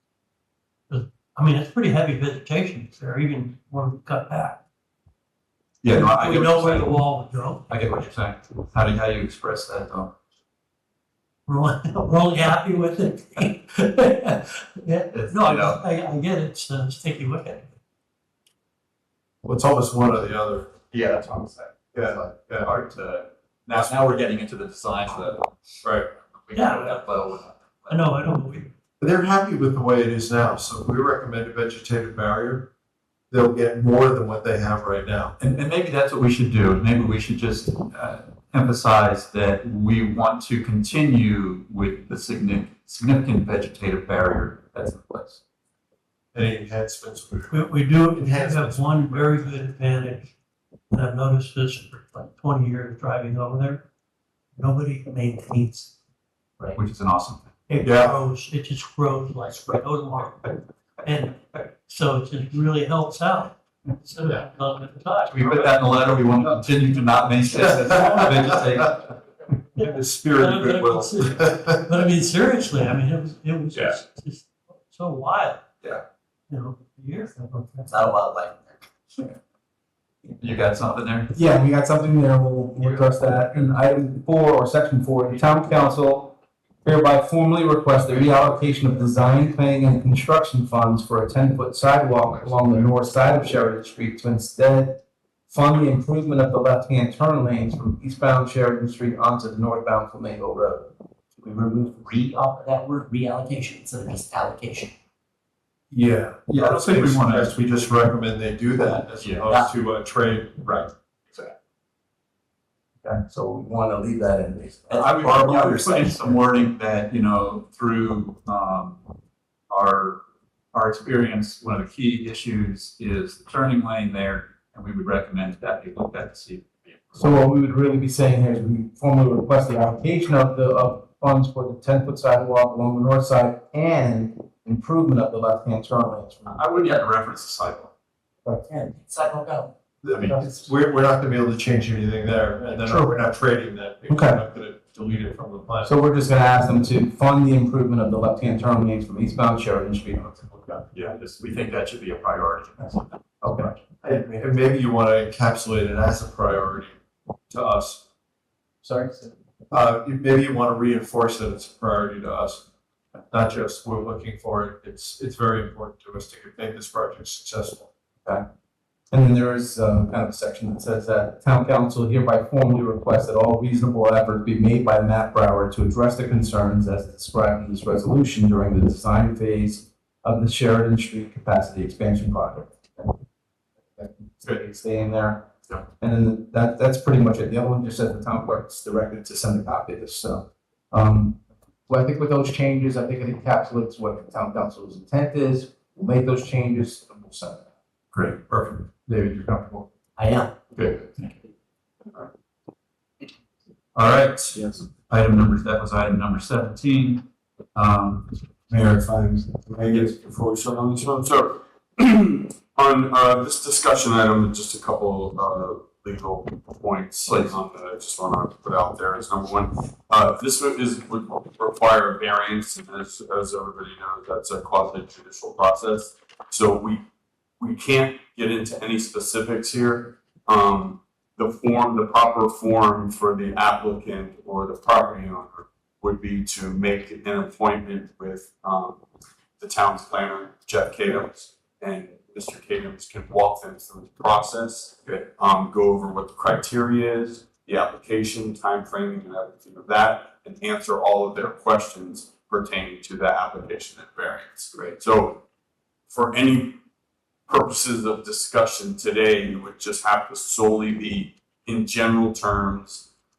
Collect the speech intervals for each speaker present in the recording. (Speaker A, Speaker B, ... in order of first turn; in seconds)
Speaker A: 0.9-4.6, 5.9-7.7, 11.5-17.6, 26.5-27.0, 27.9-28.7, 47.5-50.3, 50.9-53.9, 54.6-55.9, 57.7-65.4, 69.8-75.6, 76.5-77.9, 142.9-143.2
Speaker B: 5.8-7.0, 7.7-10.1, 15.1-15.8, 20.9-25.5, 26.3-28.1, 35.4-45.4, 56.8-57.5, 65.3-69.2, 80.4-81.3, 106.5-107.5, 114.9-119.1, 119.7-120.2, 120.7-127.3, 136.5-137.9, 140.2-140.4, 150.9-153.2, 198.1-199.1, 200.8-201.1, 203.9-207.2, 207.8-208.3
Speaker C: 19.4-20.7, 21.9-22.7, 25.8-26.1, 29.0-32.7, 33.3-35.4, 46.3-49.5, 57.8-58.2, 69.8-71.8, 105.9-110.9, 140.0-145.9, 154.1-157.0, 157.5-158.0, 159.7-162.7, 163.3-167.9
Speaker D: 77.9-78.8, 101.4-104.9, 138.6-139.7, 200.2-200.5
Speaker E: 81.3-100.9, 113.0-115.2, 127.2-136.6, 144.1-144.4, 145.8-150.5, 153.4-153.7, 158.8-159.1, 169.1-183.1, 183.9-185.5, 186.0-197.7, 199.1-199.8, 208.7-210.1
Speaker F: 209.8-227.0, 227.6-239.0, 239.6-255.4, 256.1-256.8, 257.5-263.1